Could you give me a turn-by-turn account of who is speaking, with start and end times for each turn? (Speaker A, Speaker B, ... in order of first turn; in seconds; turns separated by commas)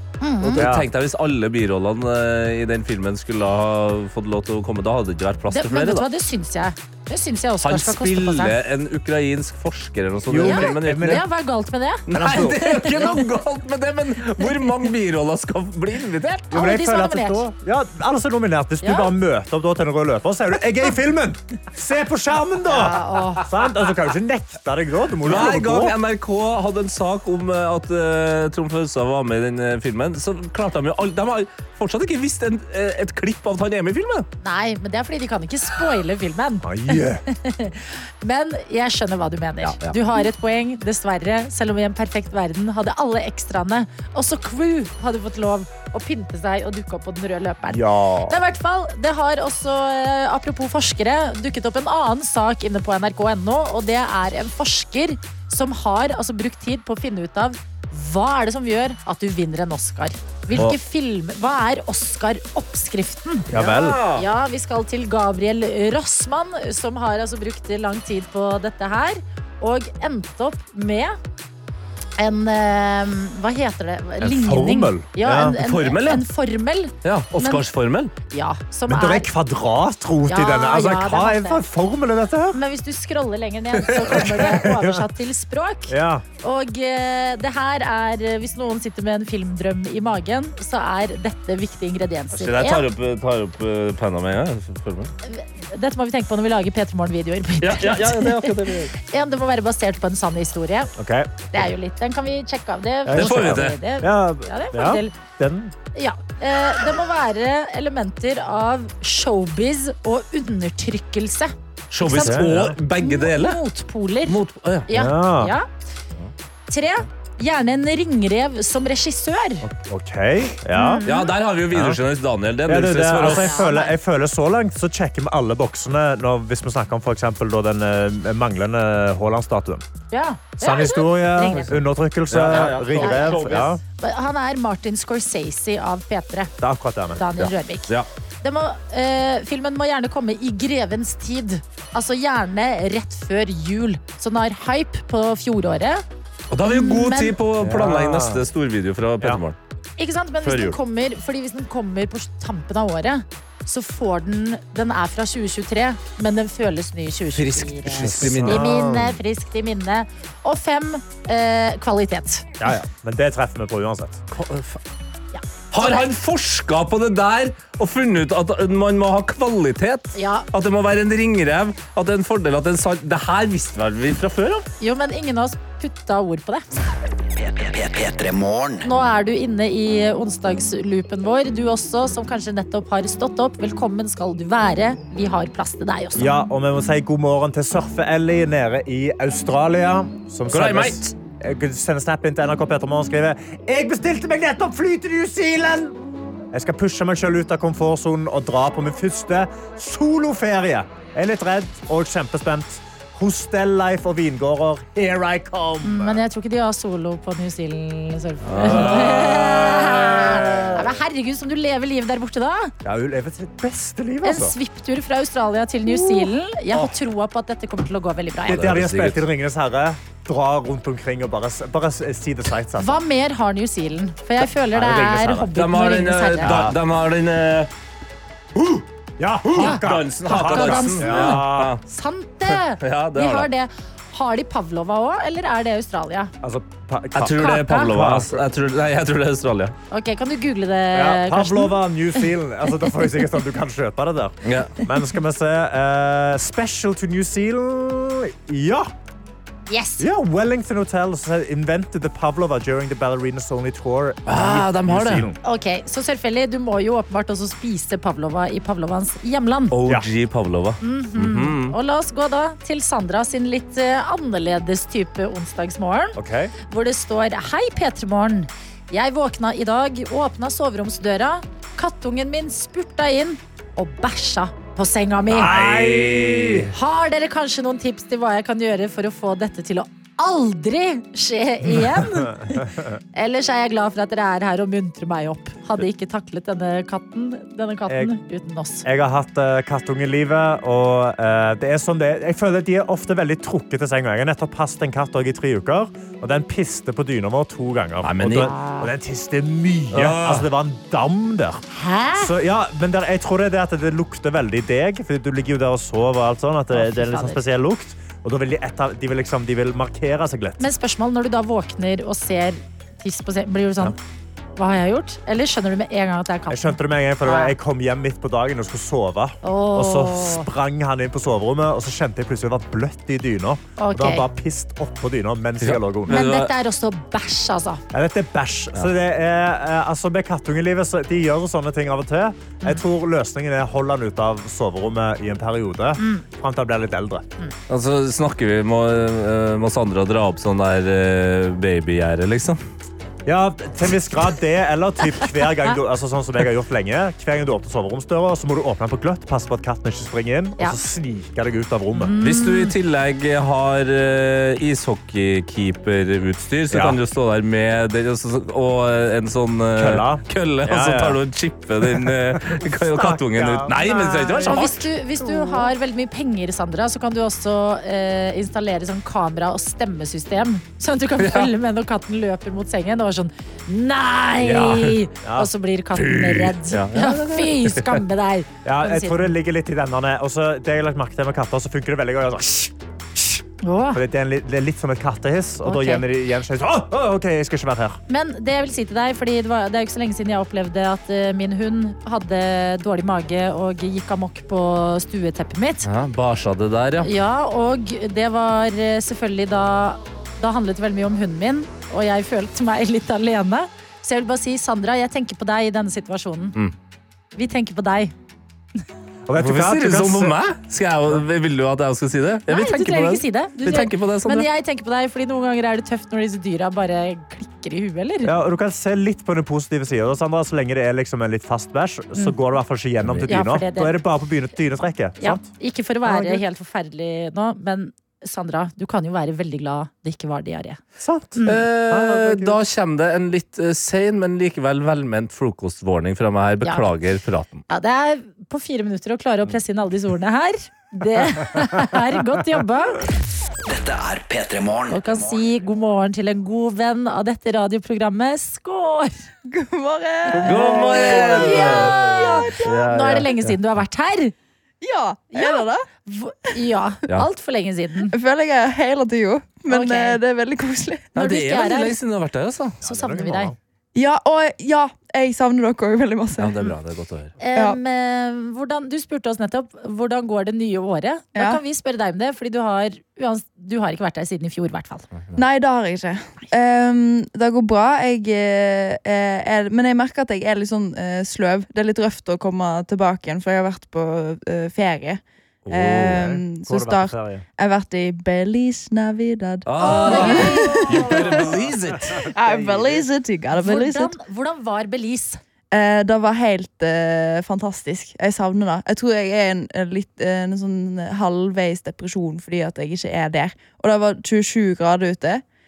Speaker A: 0.2-0.6, Speaker B: 0.4-6.1, Speaker C: 0.6-0.9, Speaker A: 5.5-8.6, Speaker B: 7.6-11.2, Speaker C: 10.3-11.2, Speaker A: 10.4-13.2, Speaker B: 12.1-16.5, Speaker C: 12.1-13.1, Speaker C: 16.5-25.9, Speaker A: 16.5-17.4, Speaker A: 18.8-19.1, Speaker A: 22.7-23.5, Speaker B: 25.2-34.3, Speaker A: 34.4-63.5, Speaker C: 36.6-37.2, Speaker B: 39.6-40.0, Speaker C: 47.7-48.4, Speaker C: 63.5-64.0, Speaker B: 63.5-64.3, Speaker A: 64.1-71.2, Speaker A: 72.2-77.7, Speaker C: 74.2-75.6, Speaker B: 75.6-76.2, Speaker B: 77.0-78.1, Speaker A: 78.3-79.3, Speaker C: 78.9-82.6, Speaker A: 80.3-81.6, Speaker A: 82.5-92.8, Speaker B: 83.9-84.3, Speaker C: 84.1-85.0, Speaker C: 85.9-86.2, Speaker B: 92.3-95.1, Speaker A: 95.2-100.9, Speaker B: 97.6-98.9, Speaker C: 101.0-101.6, Speaker A: 101.5-105.2, Speaker C: 103.1-105.7, Speaker B: 103.1-103.8, Speaker A: 105.9-112.5, Speaker B: 111.9-113.6, Speaker C: 112.1-112.8, Speaker A: 113.0-115.7, Speaker B: 114.3-114.9, Speaker C: 114.9-115.5, Speaker A: 116.7-119.7, Speaker C: 119.6-121.1, Speaker A: 120.8-121.3, Speaker B: 121.1-123.6, Speaker C: 121.7-122.0, Speaker C: 122.7-129.8, Speaker A: 123.2-124.0, Speaker A: 130.1-131.8, Speaker C: 130.6-133.8, Speaker B: 132.3-133.8, Speaker A: 132.7-136.5, Speaker C: 136.6-137.4, Speaker A: 137.2-137.9, Speaker A: 138.4-146.0, Speaker B: 146.5-149.6, Speaker A: 146.7-147.4, Speaker C: 147.6-148.4, Speaker A: 150.0-162.5, Speaker B: 150.4-150.8, Speaker B: 157.3-158.7, Speaker C: 158.0-159.2, Speaker C: 162.6-164.2, Speaker B: 164.3-164.8, Speaker A: 165.3-166.1, Speaker B: 165.7-174.7, Speaker A: 170.2-170.5, Speaker A: 174.8-176.7, Speaker D: 177.4-178.9, Speaker A: 178.8-186.4, Speaker C: 186.2-196.0, Speaker B: 190.5-191.1, Speaker C: 196.5-206.2, Speaker A: 205.8-212.7, Speaker B: 208.4-209.6, Speaker C: 208.7-210.9, Speaker C: 212.8-214.6, Speaker A: 214.2-218.7, Speaker C: 216.1-216.9, Speaker C: 218.5-223.0, Speaker B: 218.5-219.2, Speaker A: 222.8-226.5, Speaker C: 224.4-225.5, Speaker B: 225.6-227.7, Speaker C: 226.4-226.8, Speaker C: 228.6-231.8, Speaker B: 229.5-231.8, Speaker A: 229.6-236.3, Speaker B: 232.8-233.5, Speaker C: 236.4-238.4, Speaker B: 237.2-239.8, Speaker A: 237.3-237.9, Speaker A: 239.9-241.8, Speaker C: 240.9-248.9, Speaker B: 244.4-244.8, Speaker A: 249.7-250.1, Speaker C: 250.0-255.4, Speaker B: 254.3-255.3, Speaker A: 255.4-259.7, Speaker B: 259.7-261.8, Speaker A: 260.8-266.2, Speaker C: 266.1-266.5, Speaker A: 266.7-275.6, Speaker C: 275.3-276.7, Speaker B: 275.5-276.7, Speaker A: 276.7-288.9, Speaker C: 282.1-282.9, Speaker C: 287.9-288.1, Speaker C: 288.8-301.6, Speaker B: 298.0-298.5, Speaker A: 298.4-298.9, Speaker B: 299.9-300.5, Speaker A: 301.7-302.3, Speaker C: 302.2-310.7, Speaker A: 306.7-307.4, Speaker A: 310.6-314.0, Speaker A: 314.6-317.6, Speaker C: 316.5-326.2, Speaker A: 319.4-320.5, Speaker A: 323.8-324.2, Speaker B: 325.6-326.5, Speaker A: 326.1-327.8, Speaker C: 327.9-337.3, Speaker A: 336.0-336.2, Speaker B: 337.7-342.6, Speaker C: 343.3-352.1, Speaker A: 351.9-352.7, Speaker B: 352.2-364.9, Speaker C: 356.7-357.0, Speaker C: 359.8-361.2, Speaker C: 361.8-365.7, Speaker A: 364.5-379.3, Speaker B: 371.2-371.5, Speaker B: 374.4-375.0, Speaker C: 375.2-375.5, Speaker B: 375.9-378.0, Speaker C: 378.6-383.4, Speaker A: 383.6-384.0, Speaker C: 383.9-388.0, Speaker A: 385.6-386.0, Speaker A: 388.1-395.9, Speaker B: 395.8-397.1, Speaker A: 397.0-406.6, Speaker A: 407.4-408.1, Speaker C: 409.3-410.4, Speaker B: 409.4-414.5, Speaker A: 412.5-418.3, Speaker C: 418.2-425.5, Speaker A: 423.3-424.0, Speaker A: 425.2-430.8, Speaker C: 426.1-426.4, Speaker C: 431.0-432.6, Speaker A: 431.4-431.6, Speaker B: 431.5-437.6, Speaker A: 436.6-436.9, Speaker A: 437.7-443.1, Speaker D: 443.7-445.5, Speaker A: 444.9-449.1, Speaker E: 449.5-452.8, Speaker B: 450.3-453.6, Speaker A: 450.5-454.3, Speaker E: 454.8-455.9, Speaker A: 455.3-458.1, Speaker E: 458.1-461.1, Speaker A: 459.7-460.2, Speaker B: 461.1-462.8, Speaker A: 461.2-462.0, Speaker A: 462.8-463.5, Speaker C: 462.8-463.6, Speaker E: 463.9-466.6, Speaker B: 466.4-467.4, Speaker A: 467.4-475.1, Speaker E: 471.4-471.6, Speaker E: 475.4-491.5, Speaker B: 485.7-486.1, Speaker C: 486.0-487.4, Speaker B: 489.7-492.3, Speaker A: 489.8-491.5, Speaker E: 492.3-494.1, Speaker C: 492.5-493.0, Speaker A: 493.5-495.4, Speaker E: 495.7-505.4